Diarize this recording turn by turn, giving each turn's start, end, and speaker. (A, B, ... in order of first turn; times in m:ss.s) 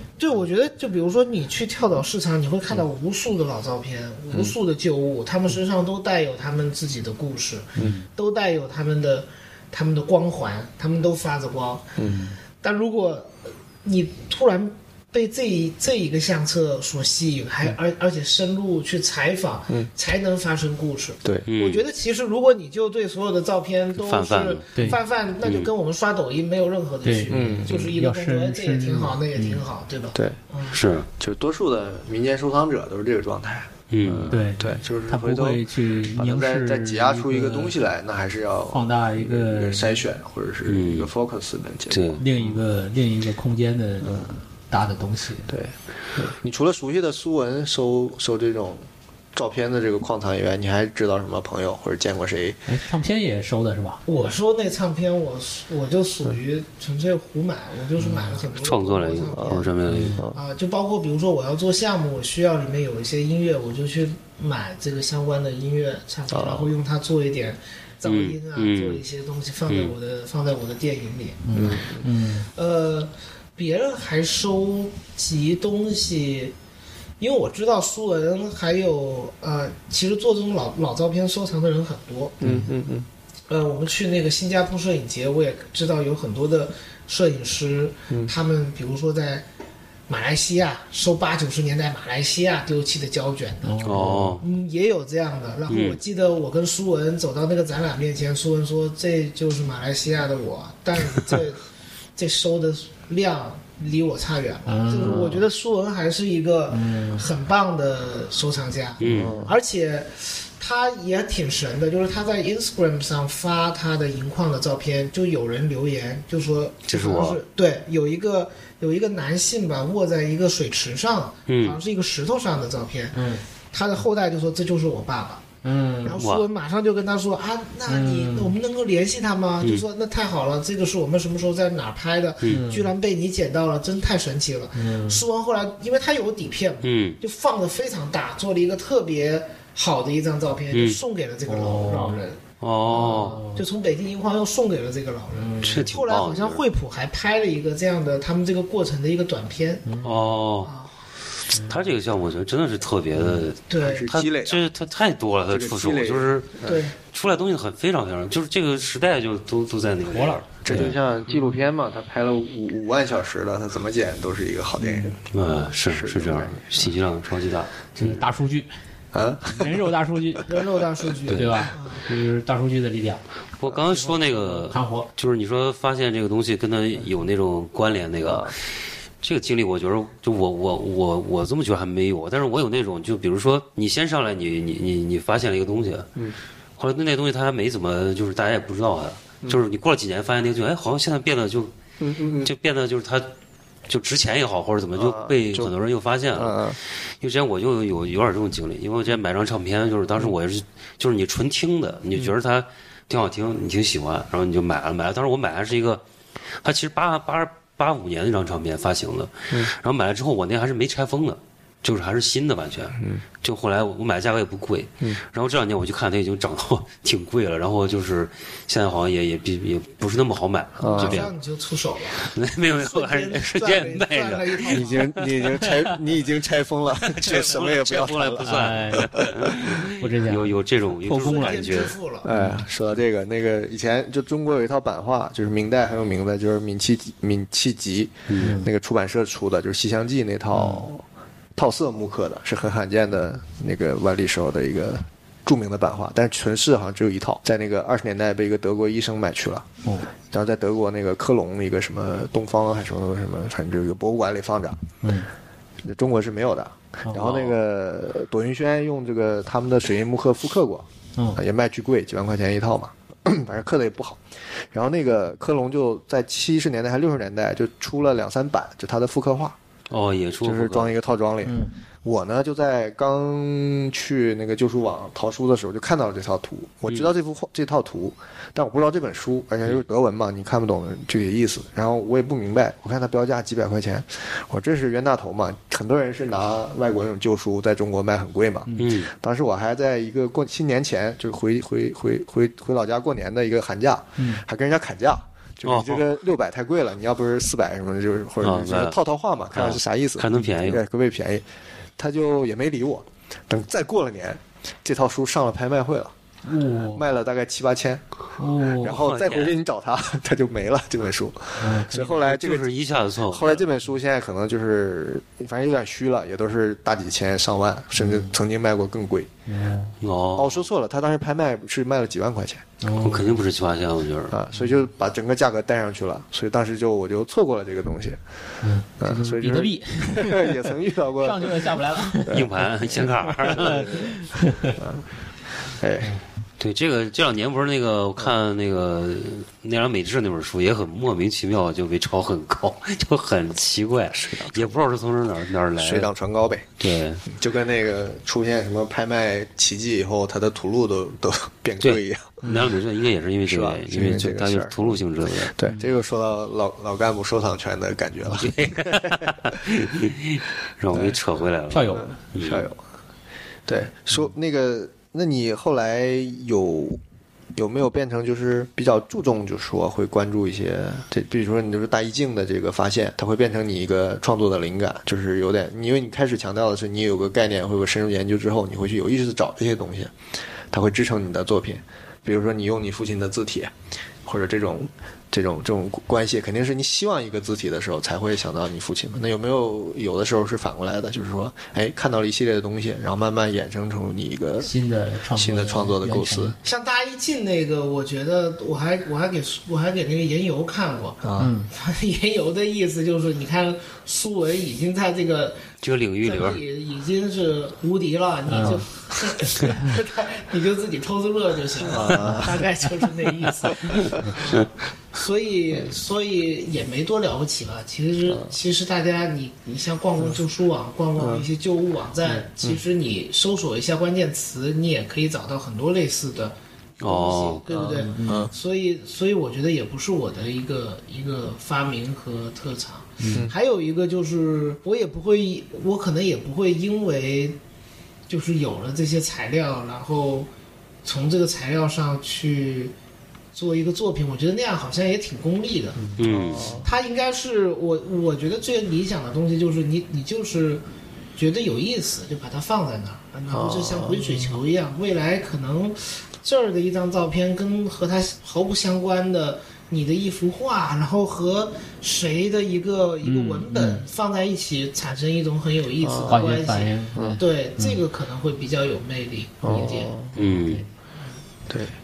0:00.2-0:11.9 A
0:07.8-0:08.1 B
0:12.1-0:12.4 B
0:12.6-0:30.8 A
0:21.5-0:21.9 C
0:24.0-0:24.7 C
0:25.4-0:25.7 C
0:27.0-0:29.6 B
0:27.3-0:27.9 D
0:30.7-0:31.1 C
0:31.2-0:42.6 D
0:33.9-0:34.4 C
0:34.3-0:37.8 B
0:38.7-0:40.0 B
0:40.7-0:41.1 C
0:41.9-0:42.2 C
0:42.2-0:45.5 B
0:44.0-0:44.3 D
0:45.5-0:52.6 D
0:52.7-0:54.0 B
0:54.1-0:59.7 A
0:58.0-0:58.4 B
0:58.5-1:00.2 C
0:59.4-1:00.4 D
0:59.9-1:00.2 B
1:00.3-1:11.9 A
1:06.3-1:06.7 D
1:08.0-1:09.0 C
1:09.7-1:10.0 C
1:11.4-1:12.5 B
1:11.6-1:12.0 D
1:12.5-1:16.5 A
1:17.2-1:22.5 A
1:22.4-1:23.1 D
1:22.4-1:22.7 B
1:23.5-1:29.4 A
1:30.1-1:41.6 A
1:33.6-1:34.4 B
1:33.8-1:34.4 C
1:35.7-1:36.0 C
1:42.2-2:03.2 A
1:44.7-1:45.4 B
1:46.7-1:47.2 B
1:49.0-1:49.4 C
1:49.1-1:49.6 D
1:56.9-1:57.4 C
2:01.5-2:01.8 C
2:03.1-2:03.4 B
2:03.7-2:05.4 A
2:05.6-2:06.2 B
2:06.0-2:29.9 A
2:06.2-2:06.5 C
2:07.9-2:08.5 B
2:12.5-2:12.9 B
2:14.8-2:15.2 B
2:16.8-2:17.2 C
2:20.7-2:21.0 C
2:21.5-2:22.2 B
2:22.6-2:23.4 C
2:23.0-2:23.6 B
2:25.3-2:25.9 B
2:25.6-2:26.6 C
2:29.9-2:30.2 B
2:30.0-2:30.7 C
2:30.6-2:30.9 A
2:31.5-2:31.8 B
2:31.5-2:41.0 C
2:33.2-2:33.5 B
2:33.7-2:34.1 A
2:33.8-2:34.7 D
2:35.5-2:36.8 D
2:36.6-2:37.0 A
2:40.1-2:41.6 B
2:40.6-2:47.0 D
2:44.8-2:45.2 B
2:45.3-2:48.1 C
2:48.0-2:48.7 B
2:49.1-2:49.9 D
2:49.5-2:50.5 B
2:50.5-2:52.0 A
2:51.3-2:51.6 C
2:51.3-2:53.2 B
2:53.6-2:58.6 C
2:53.8-2:55.1 B
2:58.3-2:58.5 D
2:59.2-3:06.1 C
3:06.8-3:11.7 C
3:12.0-3:12.5 D
3:12.4-3:13.3 C
3:13.9-3:26.0 C
3:15.0-3:15.7 D
3:16.3-3:16.8 D
3:26.6-3:41.3 C
3:33.0-3:33.2 D
3:40.8-3:41.3 D
3:40.9-3:45.1 A
3:42.2-3:45.4 C
3:44.7-3:49.7 D
3:47.0-3:52.0 C
3:48.4-3:49.2 B
3:50.0-3:51.8 B
3:51.2-3:52.3 A
3:52.2-4:01.0 D
3:52.3-3:52.6 B
3:58.3-3:58.6 C
3:58.4-3:58.7 B
4:00.5-4:00.9 B
4:01.6-4:09.7 D
4:09.8-4:10.1 B
4:10.2-4:14.8 D
4:15.0-4:15.3 B
4:15.8-4:29.6 D
4:17.1-4:17.6 C
4:29.9-4:31.0 C
4:30.4-5:01.4 D
4:31.4-4:31.8 B
4:48.8-4:49.1 C
4:54.2-4:54.4 B
4:55.6-4:56.1 C
4:58.4-4:59.0 C
4:59.5-5:00.8 C
5:02.0-5:06.1 D
5:06.4-5:07.0 B
5:06.9-5:08.0 D
5:08.4-5:09.0 B
5:08.7-5:12.7 D
5:08.9-5:09.5 C
5:11.6-5:12.2 B
5:12.2-5:13.6 C
5:13.3-5:19.3 D
5:18.0-5:18.3 B
5:19.5-5:19.9 B
5:20.0-5:20.6 C
5:20.4-5:22.6 D
5:22.8-5:23.3 B
5:23.0-5:24.4 C
5:24.3-5:28.2 D
5:28.6-5:30.6 B
5:29.0-5:34.2 D
5:31.2-5:32.5 B
5:32.3-5:33.9 C
5:33.4-5:34.8 B
5:34.8-5:35.1 D
5:35.7-5:36.1 D
5:36.6-5:46.1 C
5:44.2-5:44.8 D
5:45.8-5:46.7 D
5:46.8-5:47.2 C
5:47.3-5:52.5 D
5:51.8-5:55.6 C
5:52.4-5:52.7 B
5:53.5-5:59.4 D
5:58.4-6:02.7 C
6:00.9-6:01.2 D
6:01.7-6:02.1 B
6:01.9-6:02.8 D
6:03.7-6:07.0 D
6:07.6-6:20.1 D
6:20.7-6:23.7 D
6:24.2-6:34.7 D
6:34.6-6:36.6 B
6:35.4-6:36.6 D
6:36.6-6:45.7 A
6:41.2-6:41.5 D
6:41.4-6:41.7 B
6:45.8-6:46.6 C
6:46.2-7:17.6 A
6:48.5-6:48.8 B
6:49.4-6:49.9 B
6:51.8-6:52.6 D
6:52.0-6:52.9 B
6:58.3-6:58.6 D
7:01.2-7:01.5 D
7:07.0-7:07.6 C
7:07.7-7:08.5 D
7:07.8-7:08.5 B
7:13.2-7:13.5 B
7:18.3-7:20.5 A
7:21.0-7:22.9 A
7:23.5-7:26.0 A
7:26.1-7:26.9 D
7:26.2-7:26.7 C
7:26.6-7:26.8 B
7:26.8-7:30.8 A
7:31.4-7:50.1 A
7:33.5-7:34.4 D
7:43.2-7:44.0 B
7:46.0-7:46.6 D
7:46.2-7:48.0 B
7:47.1-7:47.4 D
7:49.6-7:50.3 D
7:50.4-7:50.8 C
7:50.4-7:50.9 B
7:51.7-7:51.9 D